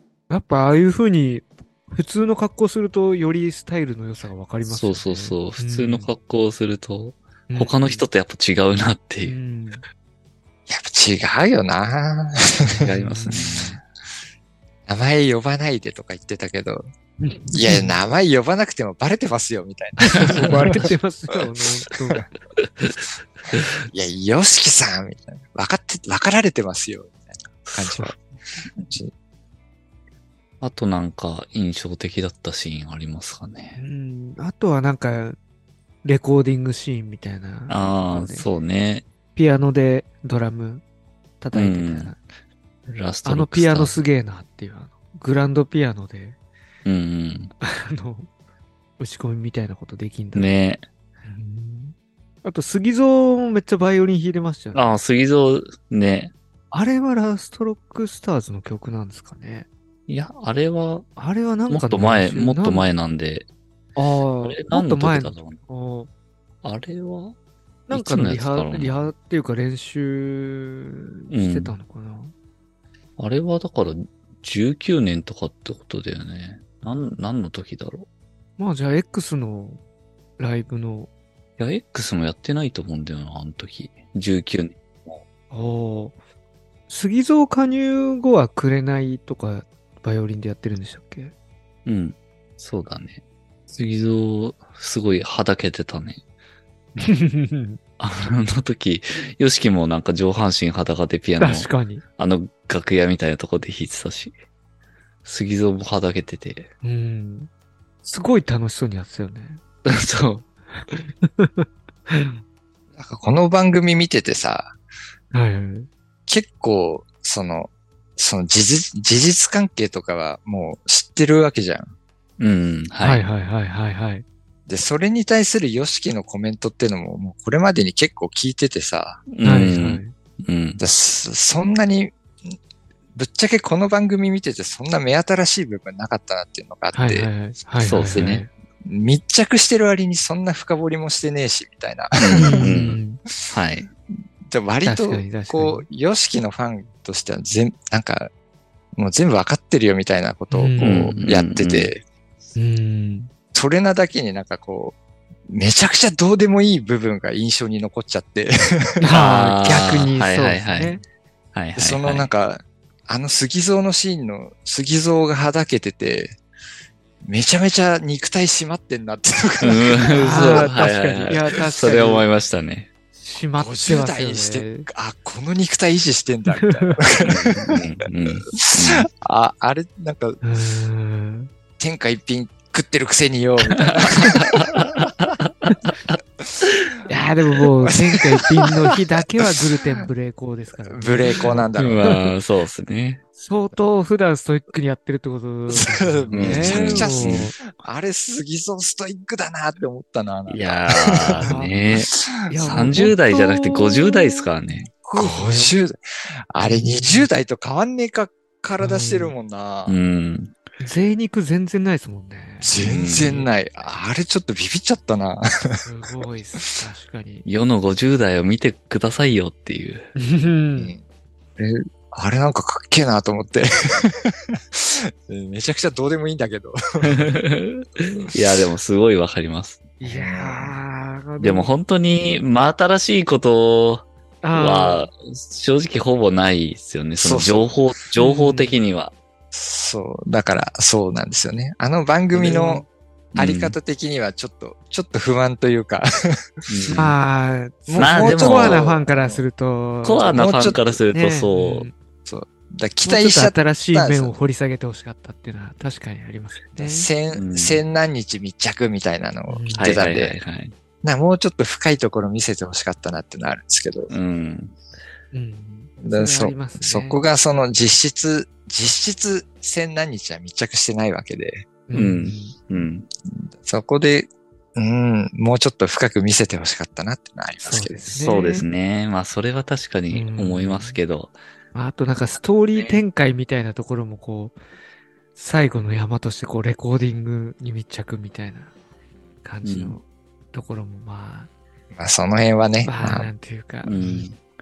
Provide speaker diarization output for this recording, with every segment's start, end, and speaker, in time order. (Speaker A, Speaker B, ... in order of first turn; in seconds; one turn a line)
Speaker A: 0.3-6.1
Speaker B: 4.6-9.4
Speaker A: 7.5-8.0
Speaker A: 9.2-9.8
Speaker C: 10.7-12.9
Speaker B: 12.8-13.8
Speaker A: 12.8-13.8
Speaker C: 14.9-16.9
Speaker A: 17.2-18.0
Speaker C: 17.5-20.9
Speaker A: 20.0-22.2
Speaker B: 20.2-20.9
Speaker B: 23.5-23.8
Speaker C: 23.9-28.2
Speaker B: 27.6-28.2
Speaker C: 28.8-29.1
Speaker B: 30.6-33.8
Speaker A: 33.8-35.4
Speaker A: 36.0-38.5
Speaker B: 37.7-39.0
Speaker A: 39.3-40.8
Speaker A: 41.4-42.2
Speaker B: 41.5-42.1
Speaker B: 42.9-44.0
Speaker A: 43.2-46.4
Speaker B: 46.8-47.5
Speaker A: 47.6-48.3
Speaker A: 49.0-50.5
Speaker B: 50.3-50.8
Speaker A: 51.2-54.9
Speaker B: 54.7-56.3
Speaker A: 56.7-59.7
Speaker B: 60.1-61.1
Speaker A: 61.2-62.9
Speaker B: 61.7-63.5
Speaker A: 64.0-66.1
Speaker B: 64.4-65.6
Speaker B: 66.6-67.3
Speaker A: 67.9-72.3
Speaker B: 67.9-69.1
Speaker B: 71.3-71.7
Speaker B: 73.2-78.1
Speaker A: 78.6-79.8
Speaker A: 80.4-81.1
Speaker B: 81.6-85.2
Speaker A: 85.5-86.2
Speaker A: 86.9-91.3
Speaker B: 91.8-96.2
Speaker A: 97.0-97.8
Speaker B: 98.0-104.3
Speaker A: 101.4-102.0
Speaker B: 105.2-106.7
Speaker A: 106.8-107.5
Speaker A: 108.0-109.6
Speaker B: 109.8-110.4
Speaker A: 110.7-112.4
Speaker C: 112.9-114.7
Speaker A: 115.3-115.9
Speaker C: 116.3-121.9
Speaker B: 122.4-123.2
Speaker A: 123.0-124.2
Speaker C: 124.7-129.2
Speaker B: 129.3-130.8
Speaker A: 129.4-130.1
Speaker C: 130.8-132.6
Speaker C: 133.1-137.3
Speaker A: 136.9-138.5
Speaker B: 137.8-138.4
Speaker C: 138.8-142.7
Speaker B: 142.2-143.9
Speaker A: 142.3-143.2
Speaker C: 144.5-148.3
Speaker A: 144.8-145.8
Speaker C: 148.9-152.0
Speaker A: 150.5-151.1
Speaker B: 150.8-151.9
Speaker A: 152.5-153.3
Speaker C: 153.5-154.9
Speaker C: 155.5-159.0
Speaker A: 159.0-161.0
Speaker B: 159.1-161.0
Speaker B: 161.5-162.3
Speaker C: 161.8-166.4
Speaker C: 167.2-170.7
Speaker B: 169.6-172.9
Speaker A: 170.1-172.2
Speaker A: 173.2-174.9
Speaker C: 173.6-177.8
Speaker A: 176.5-177.0
Speaker B: 177.2-179.1
Speaker C: 178.6-180.4
Speaker A: 180.4-181.5
Speaker C: 181.8-185.1
Speaker B: 183.8-186.9
Speaker A: 187.1-192.2
Speaker C: 187.9-188.5
Speaker C: 190.8-192.1
Speaker B: 191.8-193.2
Speaker A: 193.4-197.6
Speaker C: 195.7-202.5
Speaker B: 196.3-197.5
Speaker B: 200.5-202.1
Speaker A: 201.4-201.7
Speaker A: 202.5-204.5
Speaker B: 202.6-204.9
Speaker C: 204.9-206.0
Speaker A: 205.1-205.8
Speaker C: 206.5-210.0
Speaker A: 206.6-207.3
Speaker A: 208.8-209.3
Speaker B: 209.9-210.5
Speaker A: 210.8-213.5
Speaker C: 212.6-215.8
Speaker B: 212.8-213.4
Speaker A: 215.8-217.4
Speaker B: 217.4-220.1
Speaker A: 220.2-220.9
Speaker C: 220.8-221.0
Speaker C: 221.6-227.3
Speaker B: 227.0-229.9
Speaker A: 230.0-231.7
Speaker C: 230.0-230.8
Speaker B: 231.4-239.1
Speaker A: 234.4-235.1
Speaker C: 237.2-237.7
Speaker A: 238.2-238.7
Speaker C: 239.5-246.5
Speaker A: 242.3-242.8
Speaker B: 243.3-243.8
Speaker B: 246.7-247.2
Speaker A: 246.9-250.5
Speaker C: 247.9-249.4
Speaker B: 248.0-248.8
Speaker B: 250.0-251.9
Speaker C: 250.3-251.0
Speaker A: 251.1-251.9
Speaker C: 252.2-254.3
Speaker A: 253.0-257.1
Speaker C: 256.8-260.4
Speaker B: 257.3-257.8
Speaker A: 259.5-260.0
Speaker B: 259.8-260.7
Speaker C: 261.0-264.1
Speaker B: 264.1-264.8
Speaker A: 265.3-267.2
Speaker C: 266.0-271.7
Speaker A: 271.9-272.6
Speaker B: 271.9-273.1
Speaker C: 273.3-278.1
Speaker A: 277.6-278.6
Speaker B: 278.1-281.4
Speaker A: 280.1-281.0
Speaker A: 281.7-284.6
Speaker B: 282.7-283.0
Speaker A: 285.3-288.7
Speaker A: 289.4-291.5
Speaker B: 289.6-290.0
Speaker C: 291.9-293.3
Speaker A: 292.8-294.3
Speaker B: 293.8-294.4